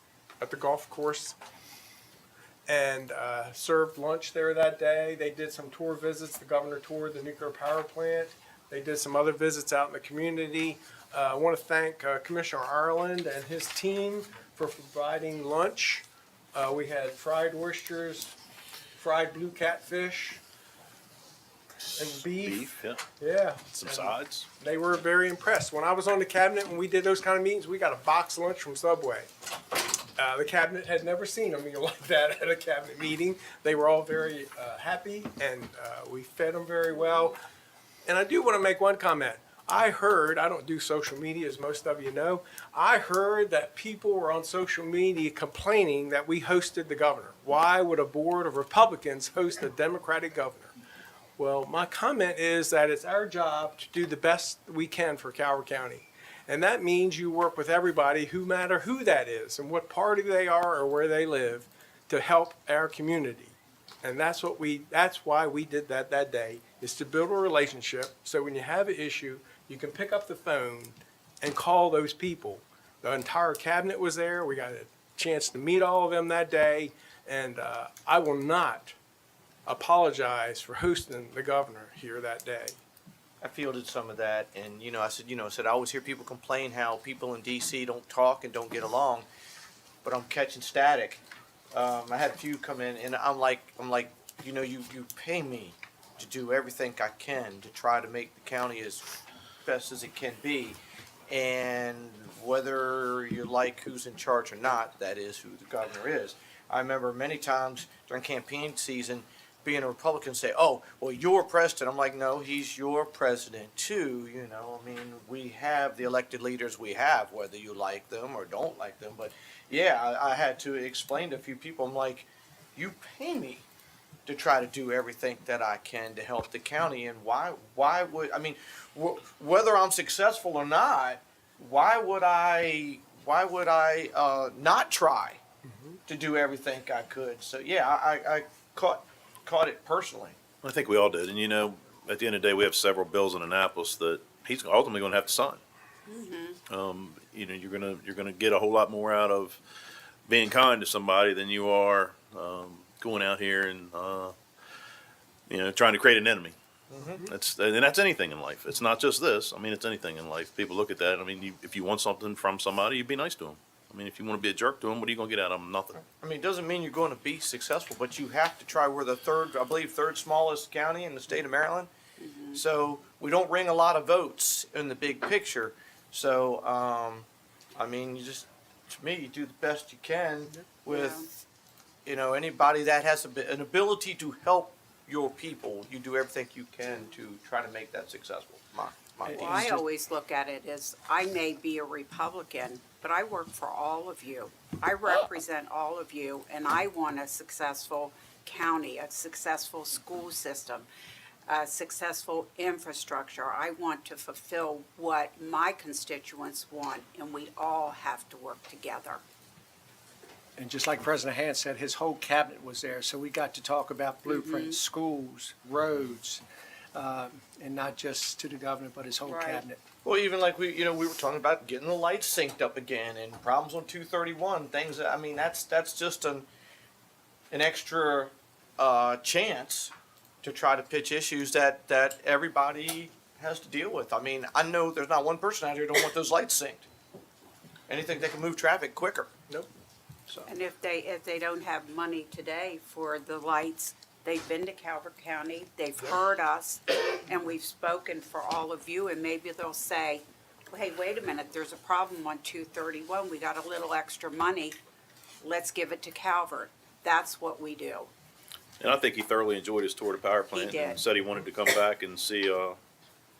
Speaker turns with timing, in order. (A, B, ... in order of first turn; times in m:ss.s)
0:00.4-0:01.4 A
0:02.7-0:18.4 A
0:18.9-0:20.4 A
0:22.0-0:29.3 A
0:22.2-0:23.0 B
0:23.8-0:24.5 B
0:30.2-0:37.4 A
0:38.0-0:50.7 A
0:51.4-1:19.0 A
1:19.6-1:22.8 A
1:23.4-1:29.3 C
1:30.0-1:31.2 C
1:31.7-1:39.1 C
1:39.6-2:03.7 C
2:04.2-2:15.4 C
2:15.6-2:16.0 A
2:16.1-2:20.4 C
2:20.6-2:25.6 B
2:26.1-2:26.6 D
2:26.7-2:29.6 B
2:30.3-2:34.3 B
2:35.5-2:36.6 B
2:36.9-2:37.2 C
2:37.2-2:46.0 B
2:46.2-2:51.9 C
2:52.2-2:52.6 D
2:52.5-3:01.2 C
3:00.9-3:01.3 D
3:02.0-3:09.8 C
3:09.3-3:20.9 D
3:21.5-3:29.2 D
3:30.6-3:36.4 E
3:34.2-3:34.8 D
3:36.9-3:39.8 E
3:39.2-3:39.6 D
3:40.0-3:46.5 C
3:47.5-3:49.9 C
3:50.4-3:56.9 C
3:57.9-3:59.3 C
4:00.5-4:14.8 D
4:15.4-4:18.1 D
4:18.8-4:22.8 B
4:20.5-4:21.0 D